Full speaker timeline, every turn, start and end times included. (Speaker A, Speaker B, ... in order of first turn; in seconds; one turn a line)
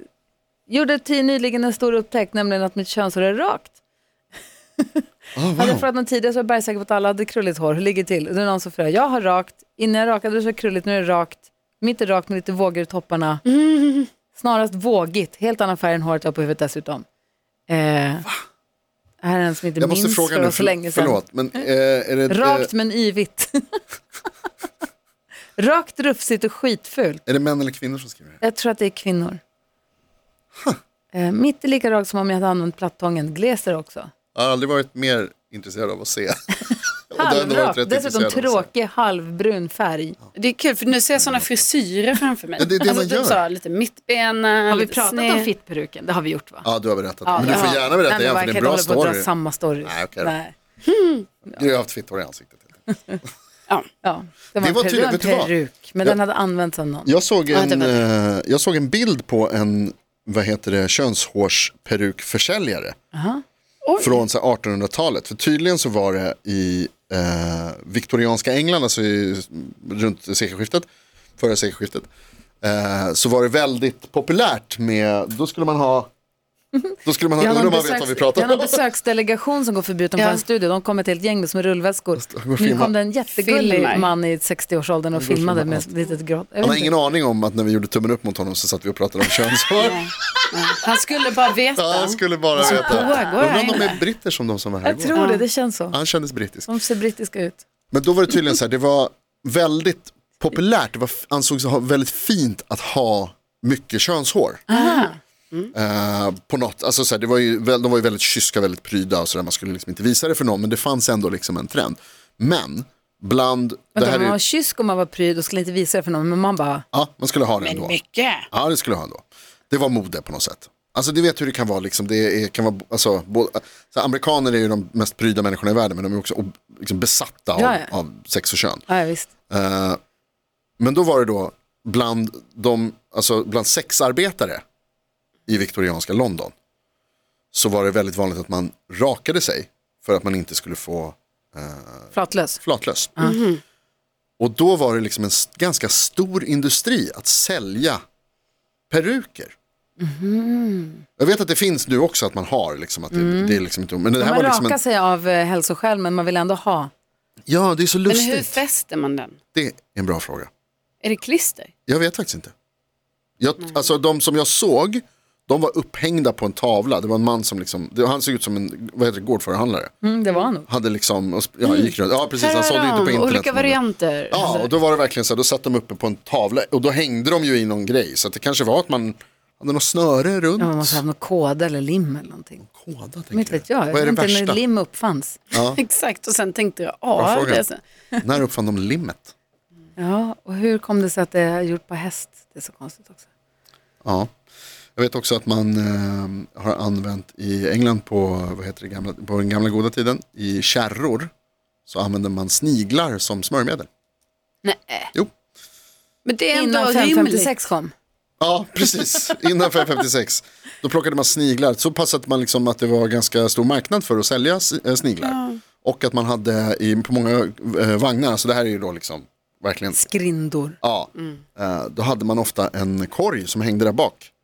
Speaker A: 0.7-3.7
Speaker A: 4.8-13.4
Speaker B: 5.4-5.9
Speaker C: 13.4-14.1
Speaker A: 14.3-17.1
Speaker A: 17.7-18.3
Speaker A: 19.2-21.6
Speaker B: 19.8-22.7
Speaker A: 22.3-23.8
Speaker A: 25.6-27.2
Speaker B: 27.3-28.4
Speaker A: 28.4-29.4
Speaker A: 31.1-34.1
Speaker B: 34.4-38.7
Speaker A: 37.1-40.2
Speaker C: 40.4-45.5
Speaker B: 41.2-41.5
Speaker B: 42.6-43.4
Speaker A: 44.7-46.7
Speaker B: 46.6-49.3
Speaker A: 47.2-50.5
Speaker C: 47.4-47.8
Speaker B: 49.8-50.3
Speaker C: 50.8-51.3
Speaker B: 51.5-52.8
Speaker A: 52.9-53.2
Speaker A: 54.0-57.1
Speaker B: 54.6-56.2
Speaker B: 57.1-63.0
Speaker C: 57.5-58.0
Speaker A: 63.1-63.4
Speaker C: 63.9-64.2
Speaker B: 64.0-72.1
Speaker B: 72.6-76.1
Speaker A: 76.9-86.9
Speaker B: 77.0-78.8
Speaker C: 80.2-80.4
Speaker B: 82.2-82.9
Speaker C: 83.4-84.1
Speaker B: 85.1-85.9
Speaker B: 86.6-90.0
Speaker C: 89.8-94.0
Speaker B: 91.8-95.2
Speaker A: 92.6-93.3
Speaker A: 94.8-96.0
Speaker C: 95.2-95.5
Speaker B: 95.9-96.7
Speaker A: 96.7-97.6
Speaker B: 97.9-104.6
Speaker A: 104.7-105.2
Speaker C: 104.7-105.7
Speaker B: 105.7-114.4
Speaker A: 114.0-116.8
Speaker B: 116.9-118.0
Speaker C: 117.6-118.5
Speaker B: 118.5-128.8
Speaker A: 127.6-127.9
Speaker A: 128.9-129.3
Speaker B: 129.5-130.0
Speaker B: 130.8-134.6
Speaker B: 135.5-136.5
Speaker B: 137.5-143.2
Speaker A: 142.1-142.6
Speaker C: 143.2-143.6
Speaker B: 144.4-148.0
Speaker B: 148.9-149.6
Speaker A: 150.0-151.0
Speaker B: 151.2-154.8
Speaker A: 153.1-153.6
Speaker A: 154.2-156.9
Speaker B: 157.5-158.6
Speaker C: 158.1-159.4
Speaker B: 159.5-160.5
Speaker C: 161.0-161.7
Speaker B: 161.9-162.5
Speaker B: 163.4-169.9
Speaker A: 170.0-170.7
Speaker B: 170.7-173.8
Speaker C: 171.6-174.7
Speaker B: 174.3-181.0
Speaker A: 180.6-182.7
Speaker B: 182.7-184.6
Speaker A: 183.3-185.4
Speaker B: 185.5-185.8
Speaker C: 185.8-187.8
Speaker B: 187.2-187.7
Speaker B: 188.2-189.3
Speaker A: 190.0-193.2
Speaker B: 194.0-194.3
Speaker B: 195.0-201.3
Speaker B: 201.9-203.9
Speaker A: 204.7-205.1
Speaker C: 206.2-207.5
Speaker A: 206.5-207.9
Speaker B: 208.4-220.1
Speaker C: 215.2-215.6
Speaker A: 219.9-220.8
Speaker B: 220.8-224.3